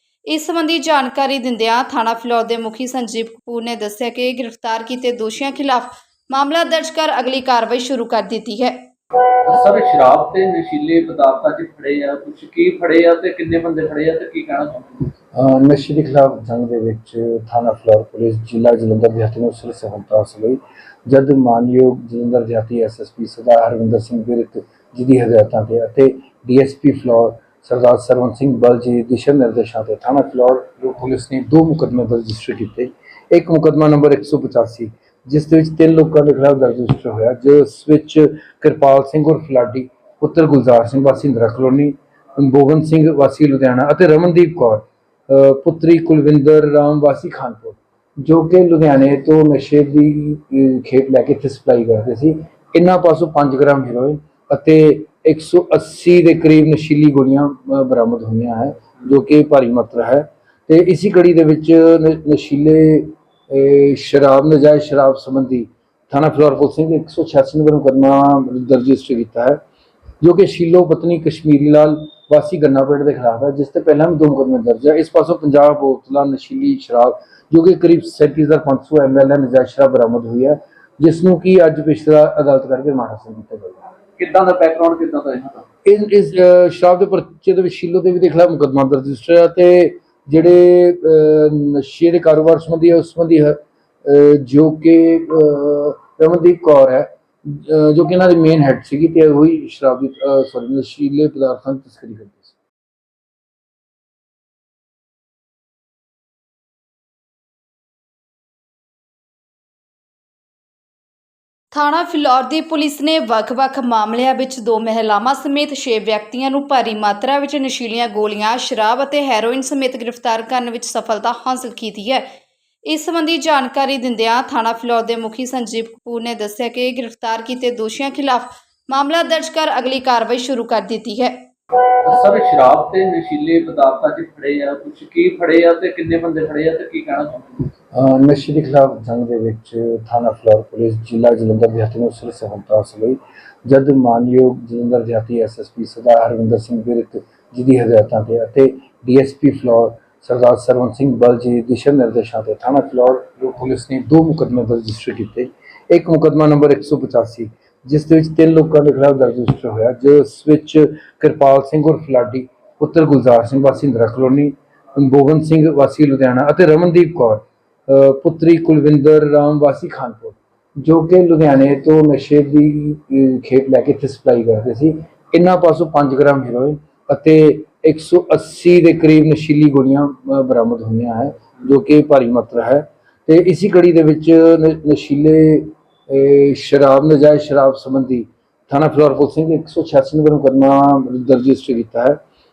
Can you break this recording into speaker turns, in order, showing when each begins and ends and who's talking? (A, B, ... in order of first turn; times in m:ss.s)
0:00.3-0:08.8 A
0:09.4-0:14.9 B
0:15.3-1:09.6 C
1:10.2-1:23.8 C
1:24.2-1:25.6 B
1:25.8-1:42.5 C
1:51.7-2:02.2 A
2:02.9-2:11.4 A
2:12.0-2:17.4 B
2:17.9-3:12.2 C